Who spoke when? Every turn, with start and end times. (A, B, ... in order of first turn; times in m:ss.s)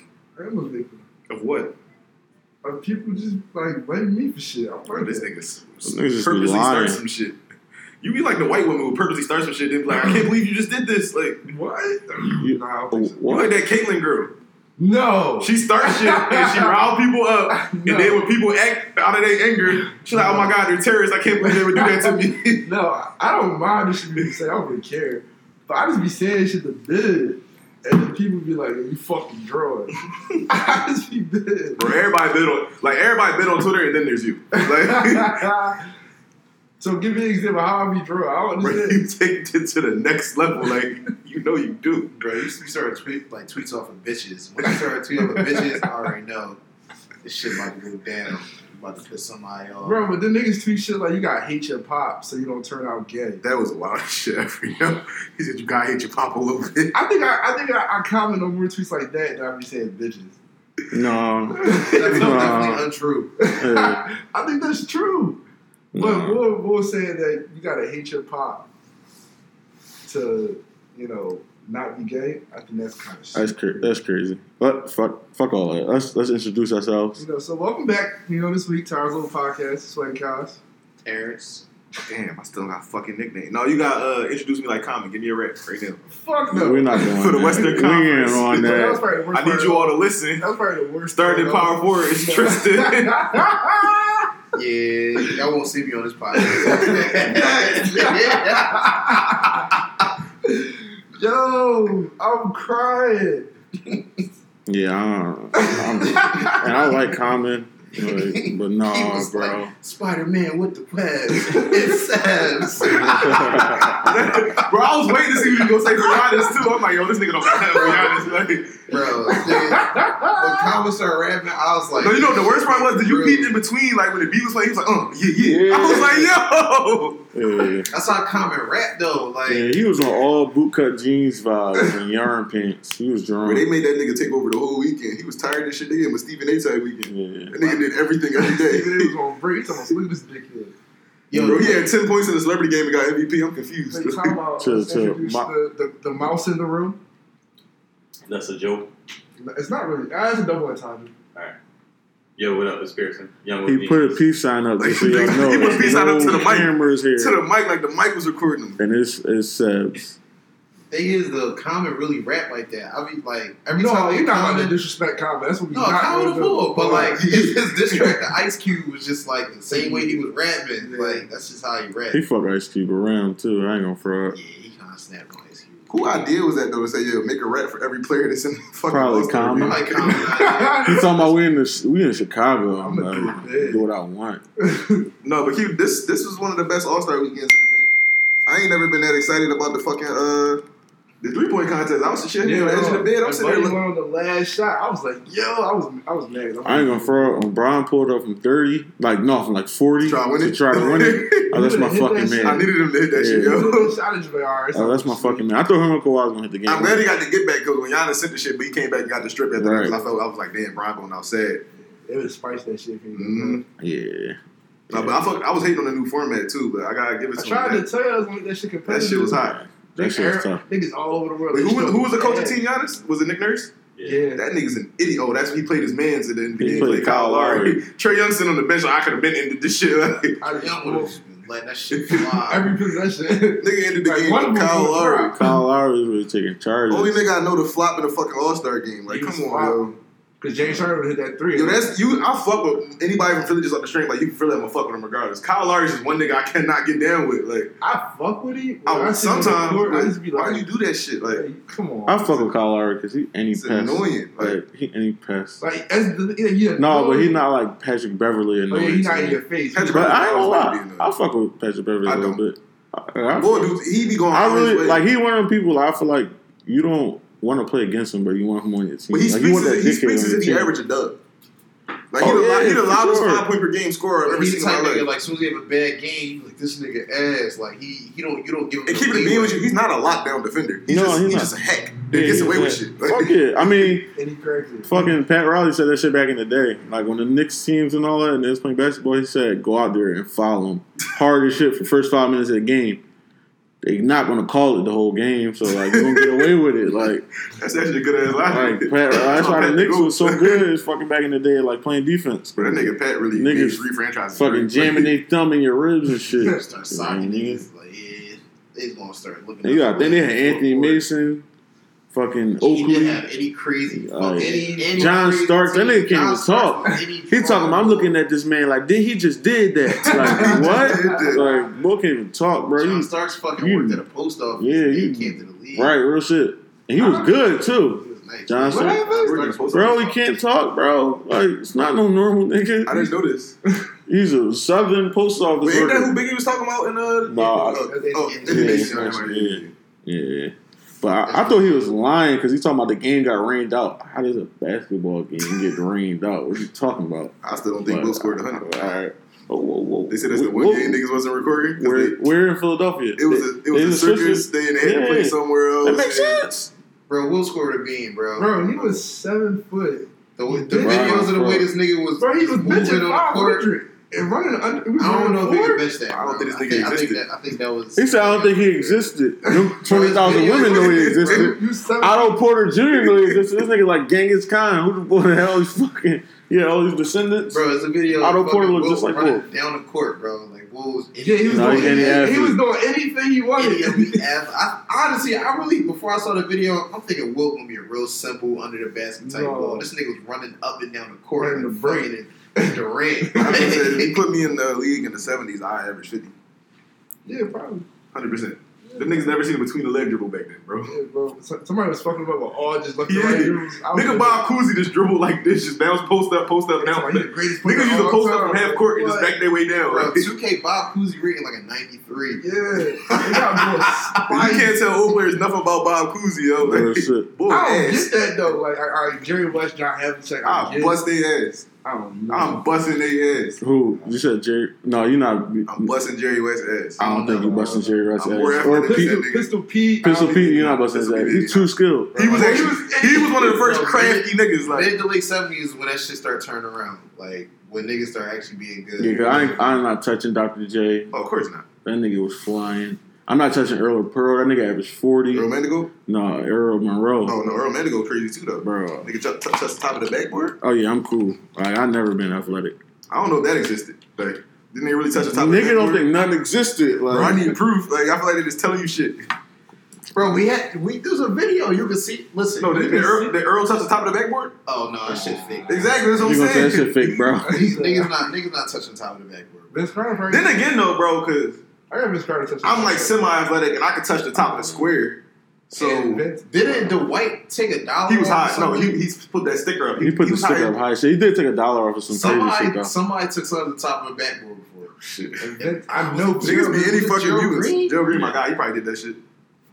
0:00.4-0:01.0 A
0:01.3-0:01.8 B
0:02.6-0:05.3 A
0:04.9-0:07.4 B
0:05.8-0:07.0 C
0:08.0-0:11.4 B
0:09.9-0:10.3 A
0:11.4-0:13.2 A
0:12.3-0:13.6 C
0:13.3-0:14.4 B
0:14.8-0:16.8 A
0:15.4-0:22.7 B
0:17.5-0:18.2 A
0:20.0-0:20.5 A
0:21.4-0:30.0 A
0:30.5-0:31.9 A
0:31.8-0:35.5 B
0:34.6-0:35.8 A
0:36.8-0:39.0 A
0:38.6-0:42.2 B
0:42.2-0:46.6 D
0:44.7-0:45.9 A
0:47.2-0:50.1 D
0:49.8-0:53.4 A
0:53.4-0:56.9 B
0:56.9-1:00.4 A
1:00.9-1:02.8 C
1:01.6-1:02.7 A
1:01.9-1:03.3 D
1:03.4-1:05.4 A
1:03.5-1:04.0 C
1:05.9-1:06.4 C
1:06.0-1:08.7 A
1:10.0-1:13.9 A
1:13.3-1:17.2 C
1:17.2-1:20.6 A
1:21.0-1:21.6 D
1:22.1-1:26.0 B
1:26.1-1:28.0 A
1:26.5-1:29.0 C
1:27.0-1:28.6 B
1:28.5-1:34.3 A
1:29.3-1:30.4 B
1:31.1-1:33.6 B
1:34.5-1:39.4 D
1:36.4-1:39.7 A
1:40.4-1:43.5 A
1:43.9-1:44.2 D
1:44.7-1:49.7 C
1:45.6-1:46.6 A
1:48.0-1:54.4 D
1:53.0-1:53.2 B
1:53.2-1:53.9 C
1:53.4-1:53.7 A
1:53.9-1:58.9 B
1:57.6-1:58.3 A
1:58.9-2:03.5 D
1:59.3-2:00.6 A
2:02.0-2:07.3 B
2:05.4-2:06.3 C
2:07.3-2:07.9 C
2:07.9-2:09.8 D
2:09.5-2:13.7 C
2:13.4-2:19.1 B
2:17.1-2:17.7 C
2:18.3-2:20.7 A
2:21.3-2:21.9 D
2:21.3-2:24.4 B
2:23.9-2:27.0 A
2:24.6-2:25.5 C
2:28.3-2:28.9 E
2:29.4-2:31.1 A
2:32.4-2:34.2 E
2:33.7-2:37.4 C
2:34.8-2:38.8 B
2:38.8-2:40.2 C
2:40.9-2:44.8 D
2:43.7-2:47.2 A
2:45.7-2:52.2 D
2:46.8-2:48.2 B
2:49.7-2:50.2 A
2:50.8-2:51.2 A
2:52.1-2:54.4 C
2:54.3-2:55.9 D
2:55.9-3:00.2 B
2:58.9-3:00.2 C
2:59.6-3:01.3 D
3:00.1-3:01.2 A
3:00.8-3:04.4 C
3:02.8-3:03.9 A
3:04.6-3:05.1 A
3:05.2-3:07.9 B
3:08.5-3:10.6 B
3:11.2-3:13.8 B
3:12.4-3:17.4 A
3:16.6-3:23.7 C
3:20.0-3:21.5 B
3:21.5-3:25.5 A
3:22.4-3:24.0 B
3:24.7-3:27.1 C
3:26.7-3:31.6 B
3:29.6-3:30.0 C
3:32.0-3:33.6 A
3:33.1-3:33.6 B
3:33.8-3:34.4 C
3:34.9-3:35.2 C
3:34.9-3:37.8 B
3:37.4-3:42.7 A
3:38.9-3:39.6 B
3:39.4-3:40.6 C
3:41.5-3:43.8 B
3:44.0-3:44.2 E
3:44.0-3:44.4 A
3:44.3-3:50.4 B
3:46.6-3:47.8 C
3:46.6-3:47.0 A
3:50.4-3:51.2 A
3:50.5-3:52.7 D
3:51.9-3:52.3 B
3:52.4-3:55.4 A
3:53.6-3:55.4 B
3:55.4-3:57.2 C
3:56.9-4:00.0 B
3:59.1-4:02.0 A
4:01.5-4:07.7 B
4:07.8-4:10.7 A
4:08.8-4:11.4 B
4:11.3-4:12.5 A
4:12.1-4:15.6 C
4:13.6-4:14.6 B
4:15.6-4:17.4 A
4:16.8-4:30.7 C
4:18.7-4:20.5 A
4:19.7-4:21.1 B
4:22.0-4:22.4 B
4:23.4-4:25.0 B
4:29.1-4:31.2 B
4:32.1-4:35.1 B
4:32.2-4:33.4 C
4:34.2-4:39.6 D
4:38.9-4:43.4 B
4:40.9-4:41.6 C
4:42.1-4:44.1 C
4:44.2-4:45.0 A
4:44.9-4:53.0 C
4:53.8-4:57.3 C
4:55.8-4:56.5 B
4:57.6-5:00.6 B
4:58.4-5:07.6 C
5:02.6-5:05.1 B
5:06.4-5:11.0 D
5:09.6-5:11.5 C
5:12.1-5:13.2 C
5:12.6-5:18.2 D
5:13.9-5:24.0 C
5:14.4-5:15.1 A
5:20.0-5:21.4 B
5:20.1-5:21.6 A
5:22.8-5:25.9 D
5:24.6-5:29.0 C
5:27.0-5:28.2 A
5:28.2-5:29.9 D
5:28.7-5:30.2 B
5:29.7-5:33.1 C
5:32.8-5:33.6 B
5:34.1-5:36.2 C
5:35.6-5:39.7 B
5:37.3-5:37.9 C
5:37.7-5:39.2 D
5:37.8-5:38.9 A
5:38.4-5:51.0 C
5:41.2-5:41.8 D
5:47.4-5:48.9 B
5:50.1-5:52.2 B
5:51.8-5:56.7 C
5:53.2-5:56.4 B
5:57.1-5:59.0 D
5:58.4-6:01.3 A
6:00.4-6:03.7 D
6:00.8-6:01.7 C
6:02.2-6:05.8 A
6:05.0-6:09.0 D
6:05.7-6:07.2 B
6:08.0-6:19.4 C
6:09.8-6:11.4 D
6:10.2-6:10.5 A
6:10.3-6:11.5 B
6:11.1-6:12.4 A
6:13.0-6:13.4 B
6:17.5-6:22.4 D
6:21.2-6:24.2 A
6:21.5-6:22.6 C
6:23.6-6:34.2 D
6:29.2-6:29.9 A
6:31.4-6:32.1 A
6:33.3-6:33.7 A
6:33.3-6:36.3 B
6:37.2-6:37.9 A
6:38.1-6:41.0 B
6:38.8-6:39.4 A
6:40.9-6:44.4 A
6:43.0-6:50.3 B
6:46.8-6:49.4 A
6:49.9-6:52.4 D
6:52.4-6:54.8 A
6:53.8-6:58.2 B
6:56.6-6:57.3 C
6:57.5-7:01.0 A
7:00.4-7:01.7 B
7:01.8-7:02.6 A
7:02.3-7:03.6 B
7:03.6-7:05.9 C
7:05.7-7:07.0 B
7:07.0-7:08.7 D
7:07.0-7:09.2 C
7:07.3-7:08.1 A
7:08.2-7:09.5 B
7:08.7-7:10.8 A
7:10.0-7:12.5 C
7:10.2-7:15.0 B
7:12.2-7:13.6 A
7:12.7-7:19.6 D
7:19.0-7:21.1 C
7:21.1-7:21.7 B
7:21.8-7:25.5 C
7:25.3-7:25.9 B
7:26.1-7:27.4 C
7:27.2-7:30.6 B
7:28.6-7:29.1 C
7:30.6-7:32.8 C
7:33.1-7:36.2 B
7:35.3-7:37.5 C
7:37.1-7:39.2 B
7:40.1-7:43.1 D
7:42.6-7:44.6 B
7:42.9-7:43.3 A
7:44.7-7:46.0 D
7:45.1-7:46.4 A
7:45.7-7:47.2 B
7:46.2-7:47.6 C
7:47.4-7:48.3 A
7:47.5-7:49.7 D
7:49.7-7:50.8 A
7:50.3-7:51.6 B
7:51.9-7:53.2 A
7:52.6-7:56.3 B
7:54.4-7:54.9 C
7:55.7-7:57.0 A
7:56.5-7:59.0 D
7:58.1-8:00.8 B
8:00.0-8:02.9 C
8:02.1-8:04.9 D
8:05.0-8:05.5 B
8:05.4-8:07.0 A
8:05.6-8:08.0 D
8:06.4-8:09.2 B
8:08.1-8:08.4 E